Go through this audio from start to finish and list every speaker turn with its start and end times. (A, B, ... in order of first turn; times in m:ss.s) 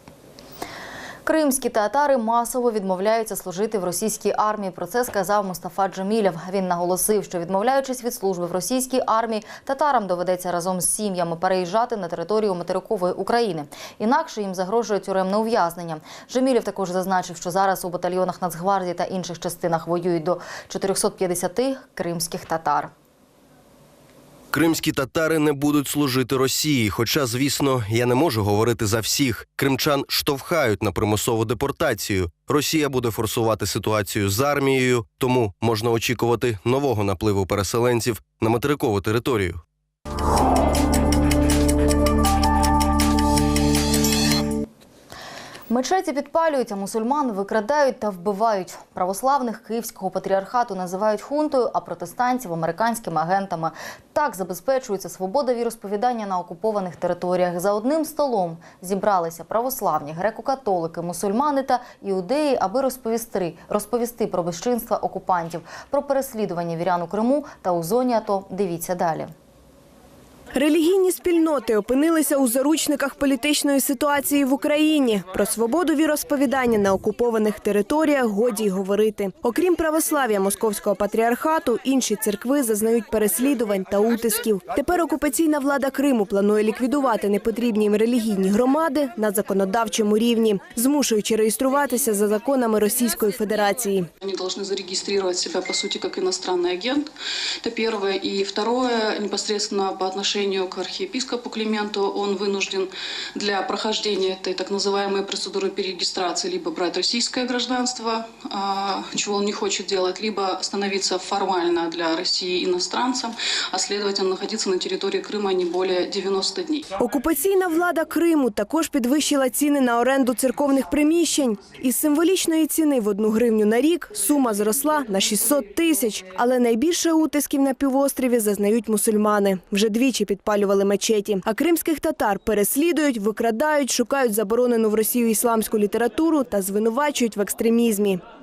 0:01.2-0:22.9 A
0:24.5-0:39.6 B
0:45.7-1:09.3 A
1:10.5-1:34.1 C
1:34.2-1:37.1 D
1:37.6-1:56.9 D
1:57.0-2:18.2 C